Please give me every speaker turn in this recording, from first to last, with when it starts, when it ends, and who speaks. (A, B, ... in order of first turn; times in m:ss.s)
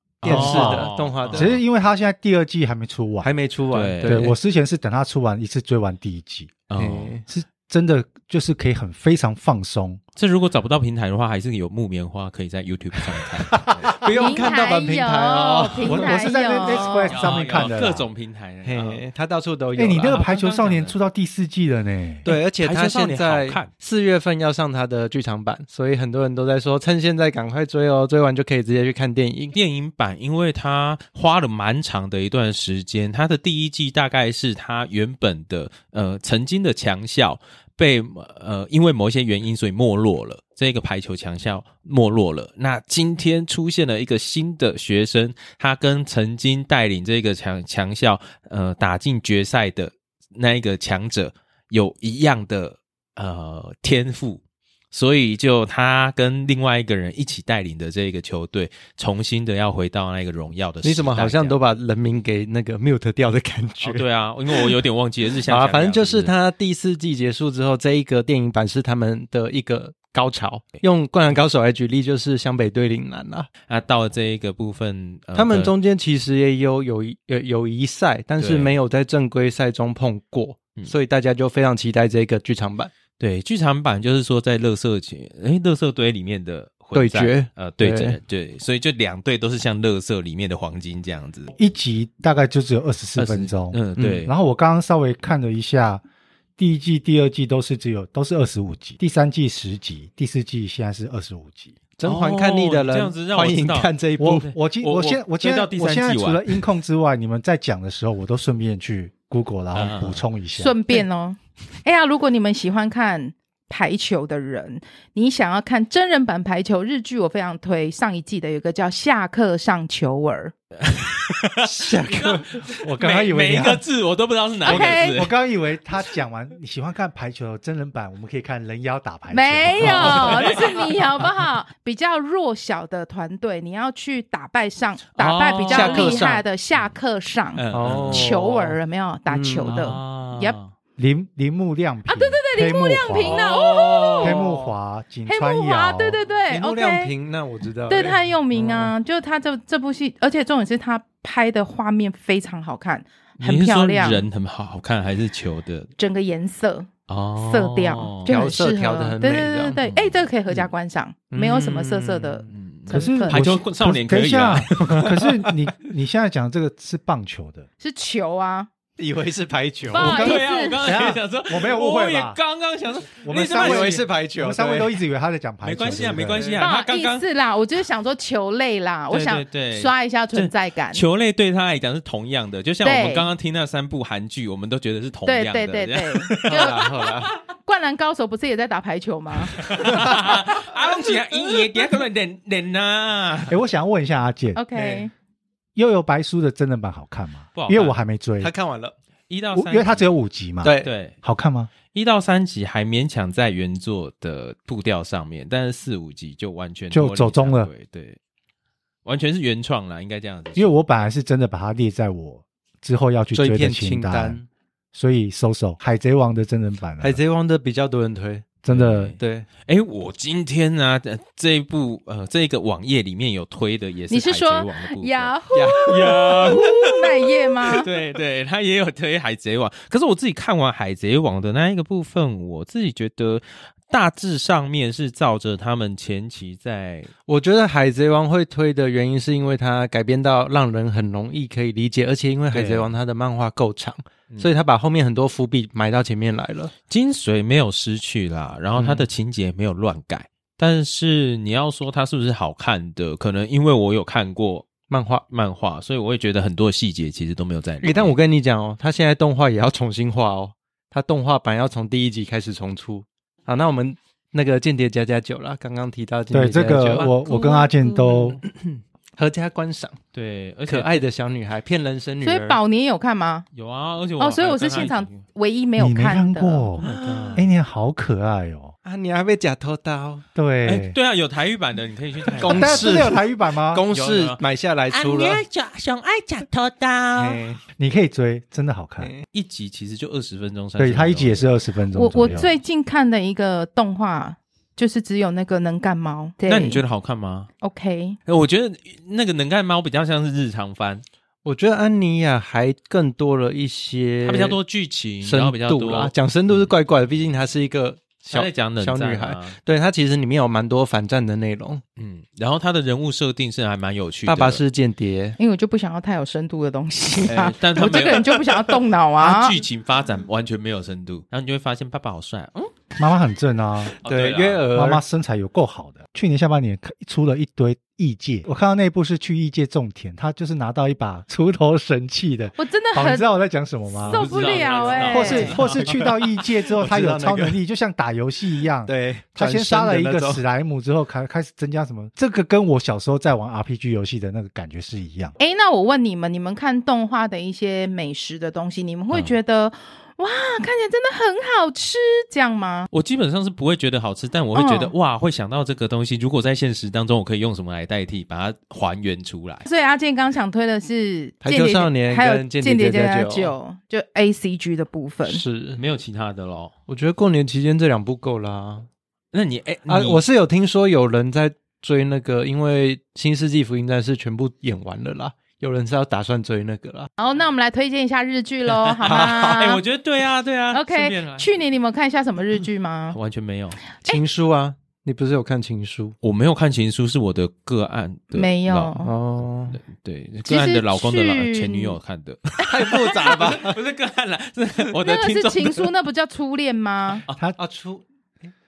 0:00.2-0:01.6 A
0:00.2-0:03.3 B
0:00.2-0:01.6 C
0:03.2-0:04.3 A
0:03.7-0:04.3 C
0:04.0-0:06.6 B
0:06.7-0:07.1 C
0:06.8-0:07.2 A
0:07.3-0:10.0 B
0:10.2-0:14.3 C
0:13.5-0:16.2 A
0:14.1-0:17.2 D
0:15.8-0:18.1 B
0:17.1-0:19.0 C
0:17.3-0:17.7 A
0:18.6-0:20.2 A
0:19.7-0:22.3 B
0:20.0-0:21.0 C
0:22.2-0:29.5 A
0:22.6-0:23.7 C
0:29.5-0:54.4 C
0:54.9-1:01.6 C
1:00.8-1:04.7 A
1:03.8-1:06.3 C
1:05.5-1:13.5 A
1:13.7-1:15.7 C
1:15.3-1:22.9 A
1:18.4-1:18.7 C
1:23.2-1:31.5 C
1:26.9-1:28.2 A
1:31.5-1:36.0 B
1:33.2-1:34.3 C
1:34.0-1:34.2 A
1:36.6-1:41.7 B
1:42.0-1:44.5 A
1:42.0-1:46.6 C
1:44.2-1:50.8 B
1:49.7-1:50.2 C
1:50.5-2:00.5 D
2:00.8-2:05.3 C
2:01.6-2:02.5 A
2:02.7-2:03.8 B
2:04.6-2:10.6 B
2:04.6-2:05.2 D
2:09.3-2:20.6 D
2:09.7-2:11.3 C
2:09.8-2:10.3 A
2:15.2-2:16.9 C
2:15.7-2:16.4 A
2:17.5-2:18.3 C
2:17.7-2:19.9 A
2:19.7-2:20.7 C
2:21.0-2:23.5 B
2:22.1-2:24.4 D
2:23.2-2:24.4 C
2:24.1-2:24.7 A
2:24.2-2:26.2 B
2:25.2-2:27.1 D
2:26.5-2:28.9 A
2:27.9-2:34.2 D
2:33.4-2:35.9 C
2:36.0-2:43.4 D
2:37.1-2:38.4 C
2:38.3-2:39.8 A
2:39.8-2:40.2 C
2:41.3-2:42.5 A
2:42.5-2:45.2 C
2:42.9-2:47.7 B
2:47.8-2:48.7 D
2:49.0-2:50.2 A
2:49.9-2:50.8 D
2:49.9-2:52.4 B
2:50.0-2:54.0 C
2:53.2-2:56.6 B
2:53.3-2:54.9 A
2:55.6-2:57.2 C
2:55.9-2:56.6 A
2:56.6-3:01.0 D
2:59.1-3:07.3 C
3:02.8-3:03.3 D
3:05.2-3:07.1 D
3:06.5-3:07.3 A
3:07.6-3:09.6 D
3:09.5-3:13.6 C
3:09.9-3:10.2 A
3:13.5-3:14.6 B
3:14.5-3:15.1 D
3:14.8-3:15.0 A
3:15.7-3:18.5 B
3:17.5-3:18.0 C
3:18.4-3:18.9 A
3:19.3-3:20.1 C
3:19.5-3:21.7 B
3:20.6-3:20.9 A
3:20.8-3:21.2 C
3:21.9-3:28.2 C
3:26.9-3:27.7 B
3:29.0-3:30.7 C
3:30.5-3:34.4 B
3:33.3-3:34.5 A
3:34.9-3:37.2 B
3:37.0-3:38.6 A
3:38.6-3:39.2 B
3:38.7-3:57.1 C
3:39.2-3:39.5 A
3:44.1-3:47.9 D
3:45.5-3:46.2 A
3:57.3-4:06.7 A
4:02.5-4:02.9 C
4:06.9-4:14.7 C
4:08.8-4:09.0 A
4:14.9-4:15.2 A
4:15.3-4:18.1 C
4:17.8-4:27.2 A
4:26.3-4:28.4 B
4:27.2-4:28.3 D
4:28.4-4:30.0 A
4:30.1-4:31.0 C
4:30.7-4:32.6 A
4:32.2-4:33.4 D
4:33.5-4:35.2 C
4:34.2-4:36.7 D
4:35.8-4:38.7 B
4:36.8-4:37.4 C
4:36.8-4:37.4 A
4:38.8-4:40.2 A
4:40.3-4:41.0 B
4:40.6-4:43.1 C
4:42.3-4:45.4 A
4:42.4-4:43.8 B
4:43.9-4:47.4 C
4:47.2-4:47.6 A
4:47.8-4:49.1 B
4:49.3-4:51.5 C
4:50.8-4:52.5 B
4:51.9-4:56.8 D
4:56.4-4:57.5 C
4:57.6-4:58.2 D
4:58.3-5:01.0 C
5:01.4-5:04.6 A
5:04.2-5:06.7 C
5:05.2-5:11.8 A
5:08.3-5:09.6 C
5:12.0-5:14.6 C
5:14.3-5:15.4 A
5:15.4-5:19.6 D
5:17.2-5:18.6 C
5:19.2-5:22.7 C
5:23.0-5:23.9 B
5:24.0-5:24.7 C
5:24.0-5:25.0 A
5:24.7-5:34.3 B
5:32.6-5:33.3 D
5:34.0-5:35.6 D
5:34.0-5:35.9 C
5:34.6-5:37.6 A
5:35.1-5:45.3 B
5:38.8-5:40.4 A
5:45.4-5:52.9 D
5:52.9-5:59.6 C
5:54.5-5:54.9 D
5:59.6-6:05.4 D
6:01.4-6:03.5 A
6:05.3-6:05.8 A
6:05.8-6:06.7 C
6:06.9-6:08.9 A
6:09.3-6:10.2 C
6:09.9-6:17.1 A
6:17.2-6:19.8 D
6:18.7-6:21.5 C
6:19.0-6:19.7 A
6:20.7-6:23.2 D
6:23.1-6:23.8 C
6:24.0-6:26.2 A
6:26.2-6:28.9 C
6:28.3-6:29.1 D
6:29.0-6:29.8 A
6:29.7-6:35.9 C
6:30.4-6:32.0 D
6:32.6-6:33.8 A
6:35.0-6:37.2 D
6:37.6-6:38.5 A